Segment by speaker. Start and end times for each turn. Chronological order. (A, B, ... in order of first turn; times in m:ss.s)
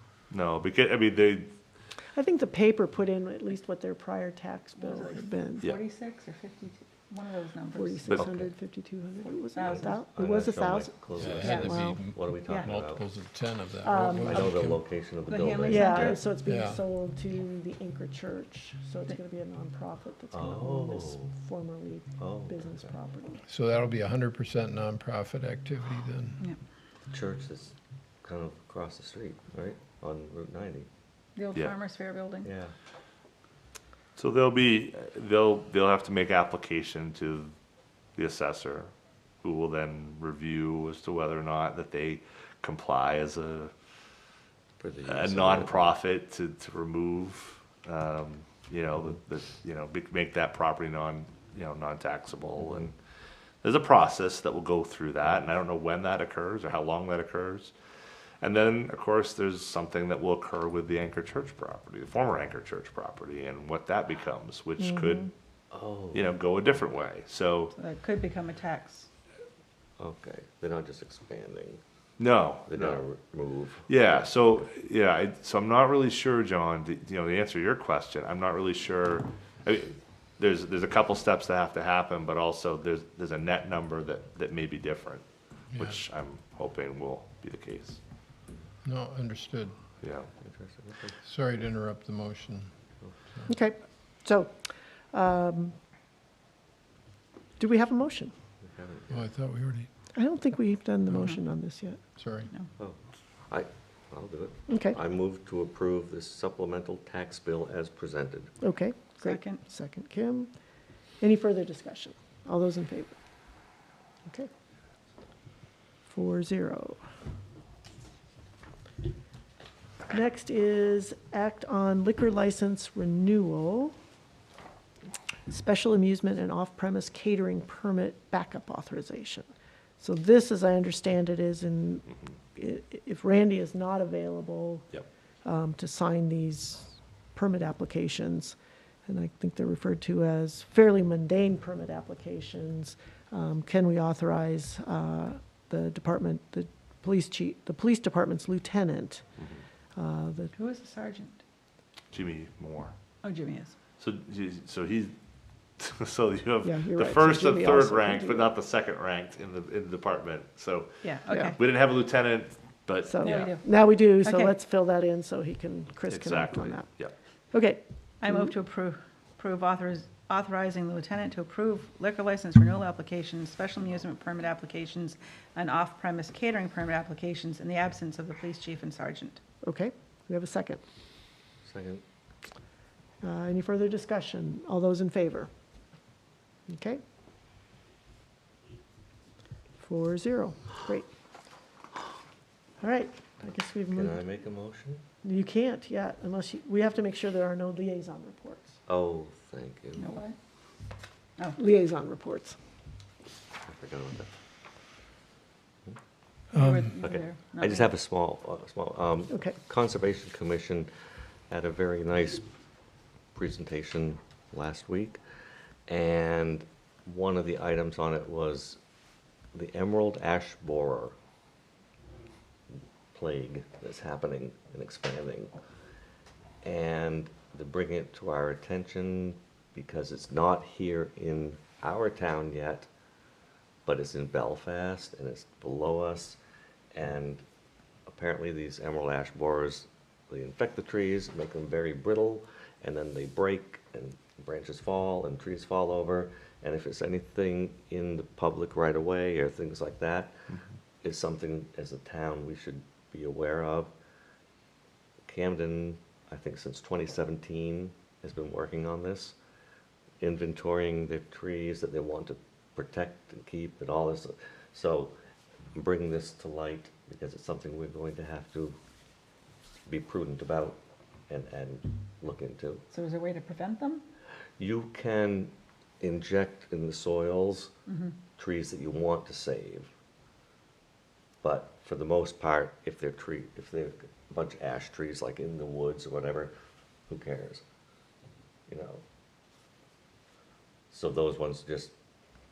0:00.3-0:01.5 A
0:02.1-0:05.7 B
0:04.8-0:08.3 C
0:07.7-0:12.1 B
0:08.1-0:08.5 D
0:09.5-0:10.1 C
0:09.6-0:13.1 D
0:11.2-0:14.8 E
0:11.3-0:11.8 C
0:12.4-0:12.7 C
0:13.8-0:14.6 B
0:14.2-0:16.2 D
0:15.2-0:16.3 C
0:15.6-0:23.4 B
0:16.5-0:16.8 E
0:20.3-0:21.3 D
0:22.2-0:22.9 D
0:23.5-0:26.4 E
0:27.1-0:30.9 D
0:31.4-0:32.5 C
0:32.4-0:32.7 D
0:34.2-0:37.5 A
0:38.2-0:38.9 A
0:39.4-0:43.7 A
0:44.8-0:45.9 D
0:45.1-0:53.0 A
0:53.6-0:57.7 A
0:58.4-1:05.3 A
1:05.7-1:06.2 D
1:06.1-1:07.7 A
1:07.8-1:09.1 C
1:10.0-1:11.8 D
1:12.2-1:13.0 A
1:12.7-1:13.9 D
1:13.9-1:28.0 A
1:28.8-1:29.8 E
1:30.0-1:30.3 A
1:30.4-1:31.2 D
1:31.2-1:32.8 E
1:33.5-1:34.6 B
1:35.1-1:35.8 B
1:37.6-1:38.3 B
1:38.6-1:39.2 D
1:39.1-1:39.9 E
1:40.1-1:42.0 B
1:41.1-1:41.4 C
1:42.2-1:42.5 E
1:43.5-1:48.6 D
1:44.7-1:45.0 B
1:48.6-1:50.5 B
1:49.2-1:49.6 C
1:51.2-1:53.1 B
1:56.1-1:57.0 B
2:00.1-2:03.9 B
2:05.5-2:09.5 B
2:10.0-2:29.2 B
2:30.0-2:30.5 B
2:30.6-2:31.4 C
2:32.1-2:32.9 A
2:33.2-2:33.7 C
2:34.0-2:35.1 A
2:35.8-2:43.5 A
2:36.6-2:38.5 B
2:41.0-2:41.6 C
2:41.3-2:41.6 B
2:43.1-2:47.0 B
2:43.2-2:44.6 C
2:46.1-2:47.1 A
2:47.5-2:48.5 B
2:48.2-2:59.4 C
2:59.6-3:00.8 B
3:01.6-3:02.0 D
3:03.2-3:05.5 B
3:06.7-3:07.0 B
3:09.8-3:11.1 B
3:12.8-3:14.2 B
3:13.9-3:15.0 D
3:15.2-3:18.8 B
3:18.9-3:20.1 D
3:20.0-3:20.4 C
3:21.6-3:22.6 B
3:23.6-3:24.3 D
3:26.5-3:26.9 E
3:26.5-3:27.9 C
3:27.0-3:30.9 D
3:29.3-3:29.6 B
3:31.5-3:32.5 D
3:33.4-3:35.2 D
3:35.9-3:38.8 D
3:39.5-3:41.2 D
3:43.1-3:45.5 D
3:46.6-3:52.9 D
3:53.8-3:56.4 D
3:56.9-3:57.4 D
3:58.1-4:10.5 D
4:11.0-4:13.9 D
4:15.3-4:19.4 D
4:20.2-4:25.2 D
4:25.7-4:28.8 D
4:29.9-4:32.8 D
4:32.9-4:34.0 C
4:34.6-4:37.7 D
4:37.9-4:38.1 C
4:38.4-4:39.9 D
4:41.4-4:46.5 D
4:47.1-4:47.6 D
4:48.7-4:49.0 D
4:50.9-4:51.9 D